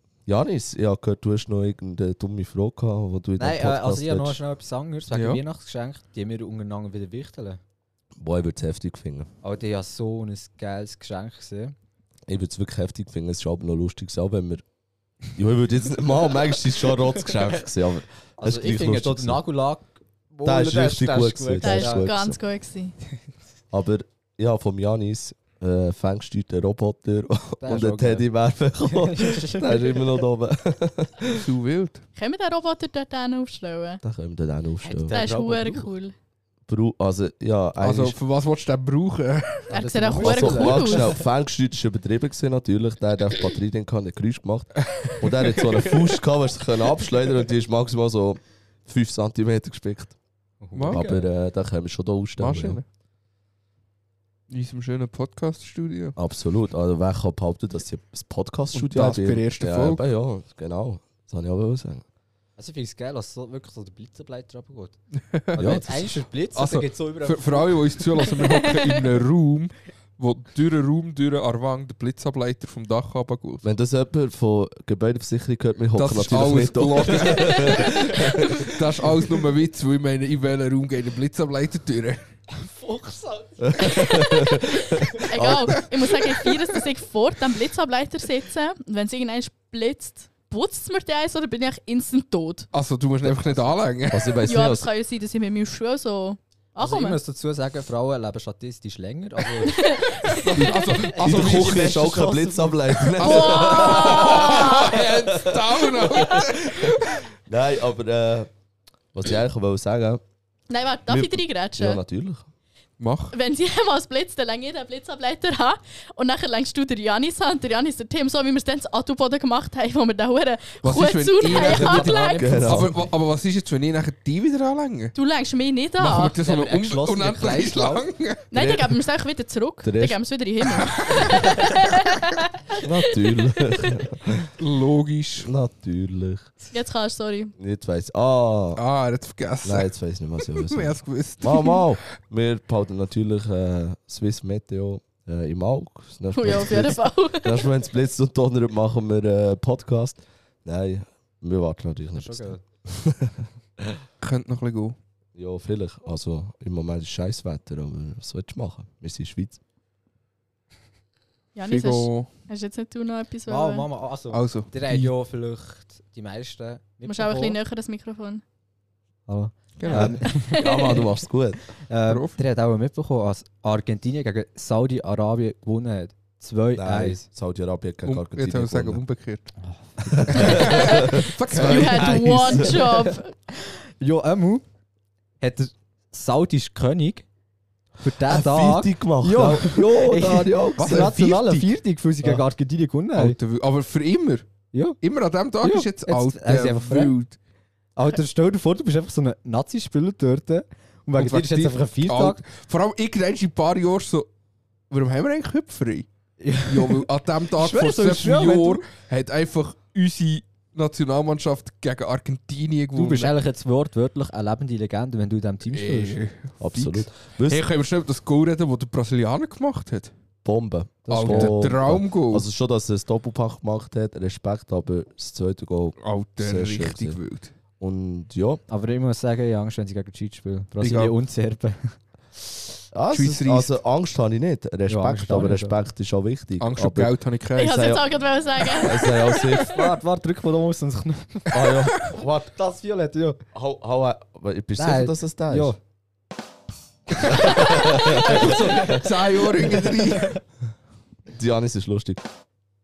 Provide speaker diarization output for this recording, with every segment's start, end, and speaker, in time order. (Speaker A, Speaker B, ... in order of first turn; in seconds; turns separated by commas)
Speaker A: 0.3-4.4, Speaker B: 3.4-7.6, Speaker C: 5.1-5.4, Speaker A: 8.2-9.3, Speaker B: 9.4-11.8, Speaker A: 12.3-14.6, Speaker A: 15.3-19.4, Speaker B: 18.4-22.1, Speaker A: 20.4-22.4, Speaker D: 21.6-22.9, Speaker A: 23.7-31.4, Speaker B: 27.6-28.3, Speaker B: 28.9-30.1, Speaker C: 31.3-32.0, Speaker D: 32.2-34.0, Speaker A: 34.0-35.2, Speaker B: 34.8-35.9, Speaker D: 35.1-36.1, Speaker A: 36.7-38.2, Speaker C: 37.8-39.8, Speaker B: 39.7-41.2, Speaker D: 39.7-41.1, Speaker A: 40.2-50.1, Speaker C: 45.0-45.8, Speaker B: 50.6-51.3, Speaker C: 50.8-51.0, Speaker A: 50.9-52.8, Speaker C: 52.4-52.9, Speaker C: 54.5-56.1, Speaker A: 56.2-62.0, Speaker C: 58.7-60.0, Speaker B: 62.6-65.0, Speaker C: 65.3-73.6, Speaker B: 65.5-68.3, Speaker A: 65.6-65.9, Speaker D: 68.4-68.9, Speaker A: 73.6-78.8, Speaker C: 76.0-82.2, Speaker B: 82.5-84.1, Speaker A: 83.6-85.8, Speaker D: 83.8-92.7, Speaker B: 85.0-85.3, Speaker C: 92.7-94.4, Speaker A: 94.1-94.9, Speaker D: 94.4-97.2, Speaker B: 96.8-102.9, Speaker D: 99.6-100.9, Speaker C: 100.5-107.2, Speaker A: 101.2-108.5, Speaker D: 103.2-105.1, Speaker A: 109.1-110.2, Speaker D: 110.7-112.0, Speaker A: 111.1-112.5, Speaker C: 113.0-113.3, Speaker D: 113.3-122.6, Speaker C: 120.8-125.2, Speaker B: 121.4-123.0, Speaker A: 122.4-123.0, Speaker D: 125.2-126.4, Speaker C: 126.0-128.5, Speaker B: 126.4-128.1, Speaker D: 128.5-132.8, Speaker A: 128.5-128.9, Speaker A: 129.8-130.2, Speaker C: 130.7-131.5, Speaker A: 132.8-134.5, Speaker C: 134.6-135.5, Speaker A: 135.4-136.5, Speaker D: 136.7-137.5, Speaker A: 137.6-138.8, Speaker C: 138.8-139.9, Speaker A: 139.6-153.9, Speaker C: 140.4-141.9, Speaker D: 146.3-147.7, Speaker B: 152.2-152.6, Speaker C: 154.2-155.0, Speaker A: 155.3-159.6, Speaker D: 161.6-163.9, Speaker C: 161.7-162.3, Speaker B: 163.5-167.6, Speaker C: 164.3-165.1, Speaker D: 167.1-168.4, Speaker B: 169.3-171.1, Speaker C: 169.8-170.2, Speaker A: 169.9-171.6, Speaker D: 170.6-171.0, Speaker B: 171.8-177.2, Speaker C: 172.1-172.4, Speaker A: 176.8-179.0, Speaker C: 178.1-179.5, Speaker B: 179.6-180.9, Speaker A: 180.0-182.8, Speaker C: 180.3-182.3, Speaker D: 180.7-183.3, Speaker B: 182.4-184.7, Speaker B: 185.4-187.2, Speaker B: 188.0-193.4, Speaker A: 188.2-191.2, Speaker C: 190.8-191.7, Speaker C: 193.2-194.5, Speaker B: 194.7-195.0, Speaker C: 195.0-197.4, Speaker B: 195.6-197.1, Speaker B: 198.0-202.4, Speaker C: 201.2-204.3, Speaker C: 204.9-206.1, Speaker B: 206.4-208.8, Speaker C: 206.7-213.3, Speaker B: 212.9-216.2, Speaker C: 215.7-220.1, Speaker A: 216.6-217.6, Speaker A: 220.4-227.2, Speaker B: 221.1-221.6, Speaker C: 221.1-222.5, Speaker C: 226.0-227.5, Speaker A: 227.8-228.6, Speaker B: 228.7-232.0, Speaker C: 230.8-231.1, Speaker A: 232.9-238.0, Speaker C: 233.1-233.8, Speaker B: 234.9-235.8, Speaker C: 236.6-237.9, Speaker D: 237.6-239.8, Speaker A: 238.7-239.8, Speaker B: 239.7-243.4, Speaker A: 241.5-242.4, Speaker A: 243.5-245.7, Speaker B: 244.8-245.8, Speaker A: 247.2-249.1, Speaker B: 247.2-247.7, Speaker D: 247.3-248.5, Speaker C: 248.1-250.4, Speaker B: 248.4-248.9, Speaker B: 249.9-250.4, Speaker A: 251.3-252.2